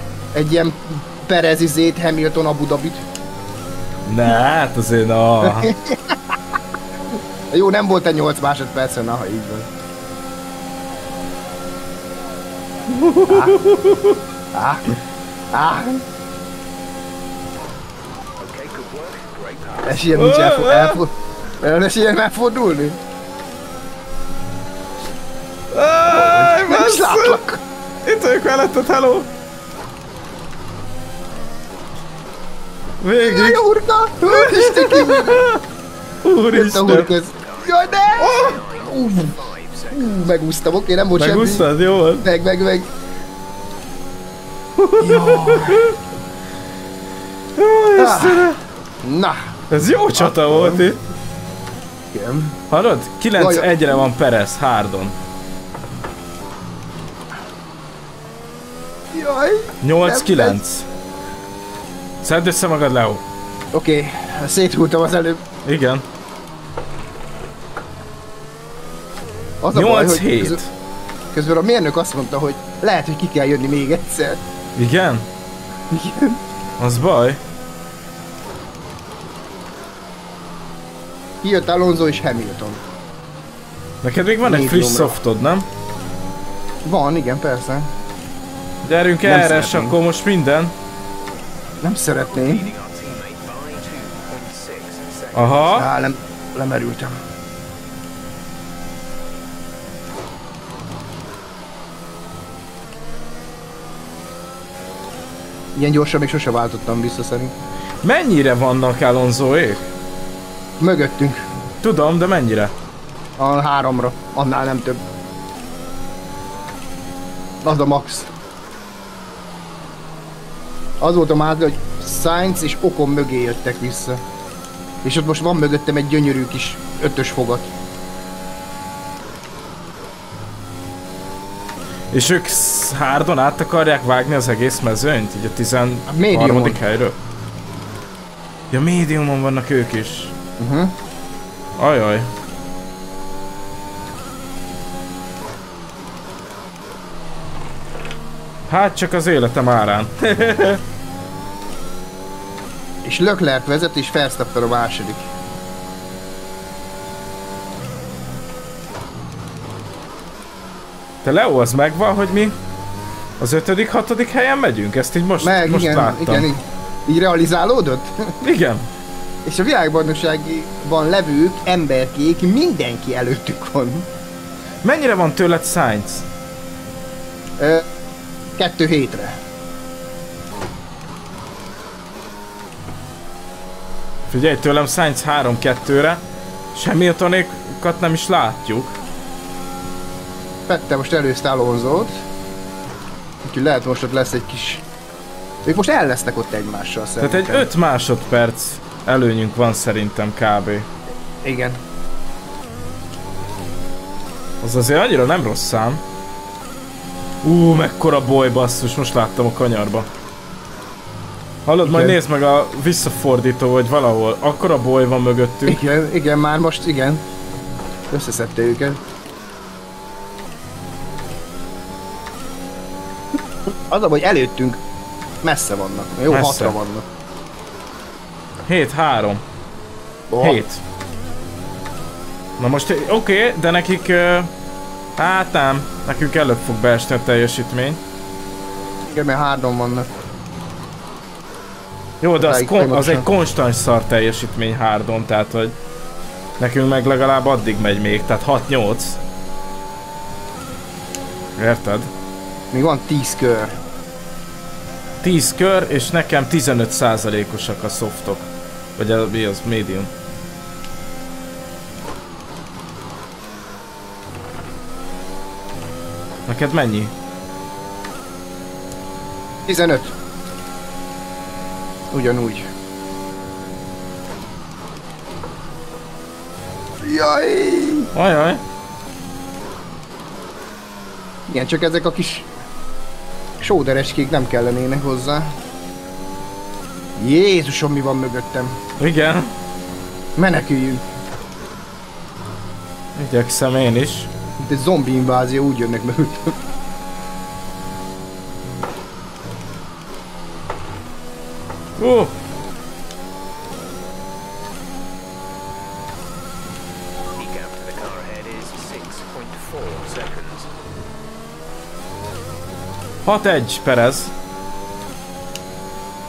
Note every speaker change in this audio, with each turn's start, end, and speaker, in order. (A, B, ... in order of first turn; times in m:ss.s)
0:00.3-0:03.0 A
0:04.1-0:05.7 B
0:05.4-0:06.2 A
0:07.1-0:09.7 A
0:12.9-0:14.2 B
0:13.3-0:13.6 A
0:14.5-0:14.8 A
0:15.5-0:16.0 A
0:18.4-0:20.2 C
0:19.8-0:23.0 A
0:20.1-0:21.0 B
0:25.7-0:27.4 B
0:26.1-0:27.6 A
0:28.0-0:29.3 B
0:33.0-0:33.6 B
0:33.2-0:35.4 A
0:34.3-0:35.6 B
0:36.2-0:37.1 B
0:36.5-0:39.4 A
0:36.9-0:40.4 C
0:39.9-0:41.7 A
0:41.2-0:42.3 B
0:42.2-0:42.9 A
0:44.8-0:46.0 B
0:45.0-0:45.9 A
0:47.6-0:48.6 B
0:48.0-0:49.5 A
0:49.7-0:51.0 B
0:50.2-0:50.9 A
0:52.1-0:52.6 A
0:52.7-0:55.2 B
0:53.4-0:54.1 A
0:59.1-1:00.6 A
0:59.8-1:00.9 B
1:02.2-1:03.2 B
1:03.7-1:05.4 A
1:05.6-1:06.0 B
1:09.6-1:10.6 A
1:09.7-1:10.7 B
1:11.3-1:14.4 A
1:14.8-1:15.3 B
1:15.9-1:16.4 A
1:16.8-1:17.4 B
1:21.4-1:22.8 A
1:24.0-1:25.6 B
1:24.4-1:25.2 A
1:26.8-1:27.9 A
1:28.8-1:30.7 B
1:29.2-1:30.0 A
1:31.8-1:32.7 A
1:32.3-1:35.9 C
1:35.4-1:35.9 B
1:35.8-1:37.2 A
1:45.8-1:47.5 A
1:48.0-1:49.8 B
1:50.8-1:51.4 A
1:51.8-1:52.7 B
1:53.4-1:55.0 A
1:57.6-1:58.3 A
2:01.0-2:04.2 A
2:05.0-2:07.7 A
2:12.1-2:17.2 B
2:16.1-2:16.8 A
2:18.7-2:20.3 B
2:20.6-2:21.0 A
2:21.8-2:22.3 B
2:28.7-2:30.8 B
2:33.0-2:35.3 A
2:41.2-2:42.6 B
2:43.4-2:46.5 B
2:45.4-2:48.4 A
2:48.4-2:48.9 B
2:49.4-2:54.1 A
2:54.8-2:56.3 B
2:57.6-2:57.9 A
2:58.6-2:59.4 A
3:04.3-3:06.2 B
3:06.7-3:09.0 B
3:10.7-3:12.2 A
3:13.4-3:14.8 A
3:15.6-3:17.7 A
3:17.2-3:20.9 B
3:21.4-3:21.8 A
3:24.6-3:26.0 B
3:27.4-3:30.1 B
3:31.7-3:35.8 B
3:31.8-3:32.2 A
3:35.7-3:37.2 A
3:38.1-3:39.0 A
3:43.7-3:44.8 A
3:45.4-3:47.1 A
3:46.3-3:46.8 B
3:48.7-3:49.4 B
3:50.3-3:50.6 A
3:50.4-3:50.8 B
3:52.6-3:54.5 B
3:55.2-3:58.0 B
3:59.1-4:00.1 A
4:02.2-4:05.8 B
4:02.4-4:03.3 A
4:06.6-4:09.2 B
4:11.6-4:12.1 B
4:12.7-4:13.8 A
4:15.2-4:18.5 B
4:19.0-4:20.1 B
4:26.5-4:27.1 B
4:29.7-4:30.1 A
4:32.1-4:32.7 A
4:37.0-4:38.1 A
4:38.1-4:38.6 B
4:41.5-4:42.5 A
4:43.6-4:45.6 A
4:47.2-4:48.8 A
4:49.0-4:49.5 B
4:50.4-4:51.0 A
4:53.2-4:54.3 B
4:54.6-4:56.6 A
5:02.0-5:02.3 B
5:07.4-5:10.7 C
5:13.2-5:14.3 B